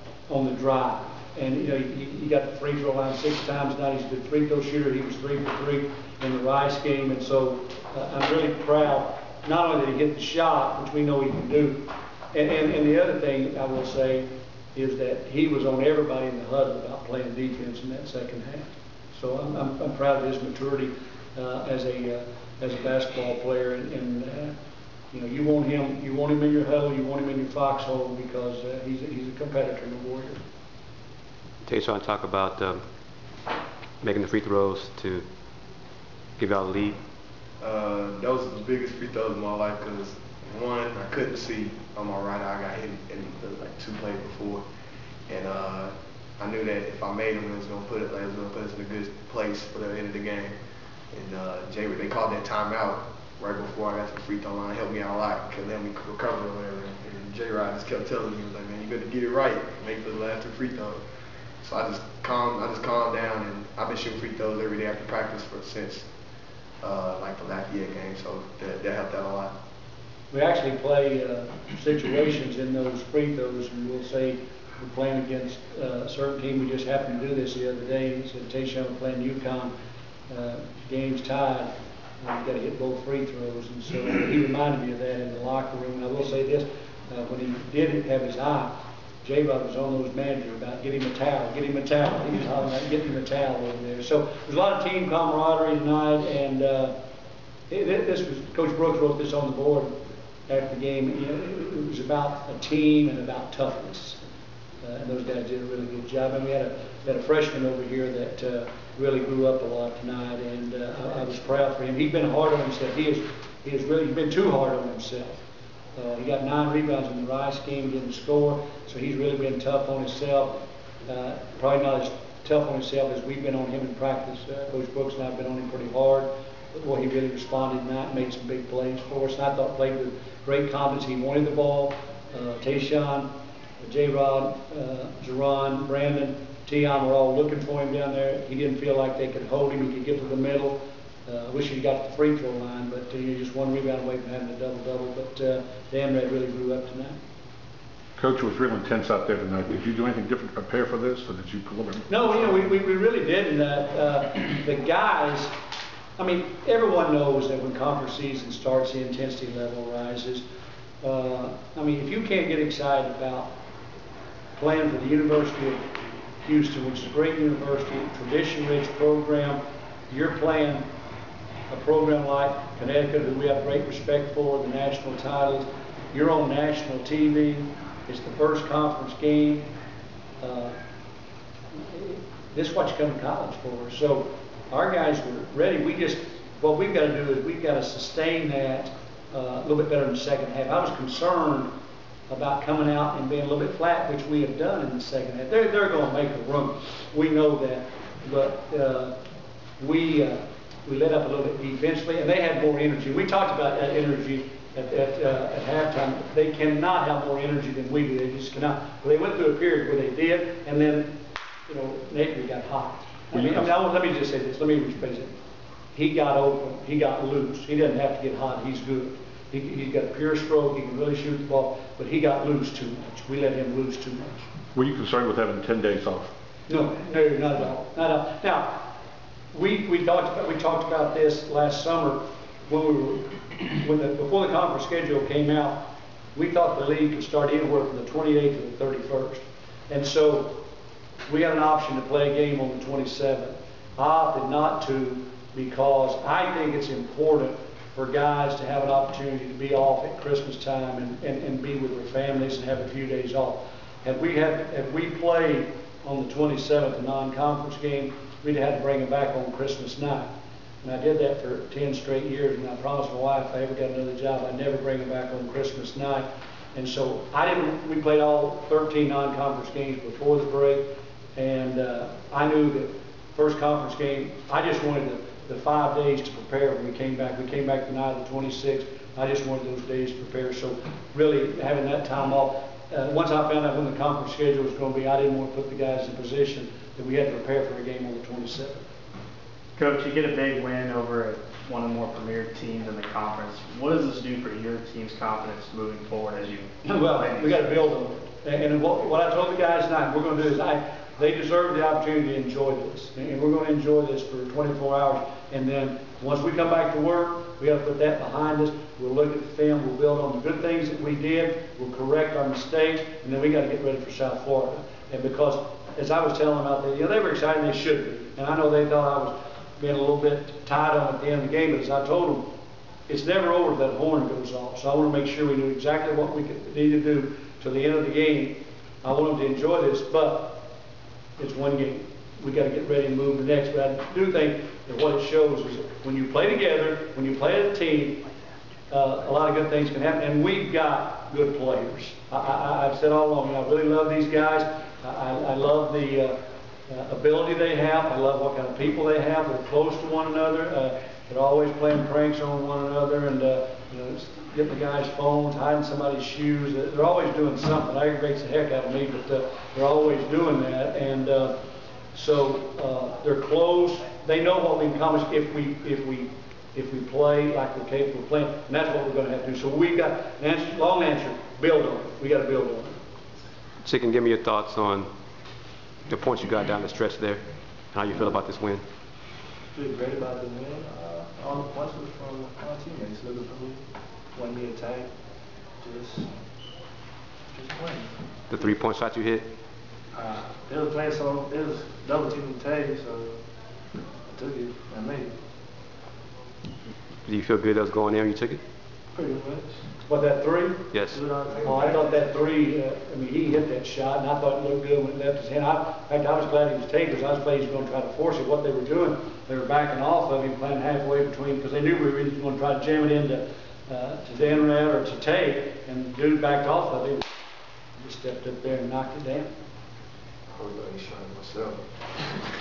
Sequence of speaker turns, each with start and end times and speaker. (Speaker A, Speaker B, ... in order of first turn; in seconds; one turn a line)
Speaker A: 0.3-24.5
Speaker A: 25.1-30.4
Speaker B: 31.6-32.8
Speaker B: 34.0-35.2
Speaker B: 36.4-37.0
Speaker C: 37.6-44.6
Speaker C: 45.3-50.5
Speaker C: 51.1-61.0
Speaker C: 61.6-66.0
Speaker C: 66.8-69.5
Speaker A: 70.3-79.7
Speaker A: 80.3-81.7
Speaker A: 82.2-88.7
Speaker A: 89.2-96.9
Speaker A: 97.7-99.9
Speaker A: 100.5-104.2
Speaker A: 104.8-115.4
Speaker A: 116.0-120.5
Speaker A: 121.1-133.3
Speaker A: 133.8-147.2
Speaker D: 148.2-152.6
Speaker A: 152.1-155.5
Speaker A: 156.2-160.4
Speaker A: 161.0-163.5
Speaker A: 164.6-165.8
Speaker A: 166.4-169.6
Speaker A: 170.1-170.8
Speaker A: 171.7-179.7
Speaker A: 180.4-180.7
Speaker A: 181.7-191.7
Speaker A: 192.3-199.1
Speaker A: 199.8-211.1
Speaker A: 211.7-215.3
Speaker D: 213.3-213.6
Speaker A: 215.9-224.5
Speaker D: 224.7-226.3
Speaker A: 226.7-228.9
Speaker A: 229.5-235.8
Speaker A: 236.3-240.6
Speaker A: 241.3-260.3
Speaker A: 260.8-270.8
Speaker A: 271.3-288.8
Speaker E: 289.8-297.6
Speaker A: 296.8-322.4
Speaker A: 323.1-330.6
Speaker A: 331.4-338.2
Speaker A: 338.9-346.3
Speaker A: 346.9-361.5
Speaker A: 362.1-373.0
Speaker B: 373.8-375.1
Speaker B: 376.1-378.8
Speaker F: 379.7-385.1
Speaker F: 385.8-386.3
Speaker F: 387.5-388.1
Speaker B: 388.5-389.5
Speaker F: 390.1-393.4
Speaker F: 394.3-395.3
Speaker B: 397.2-398.6
Speaker F: 399.1-399.8
Speaker A: 400.0-400.8
Speaker B: 400.9-401.2
Speaker F: 401.1-401.9
Speaker A: 401.6-417.3
Speaker A: 417.9-419.5
Speaker C: 420.6-421.8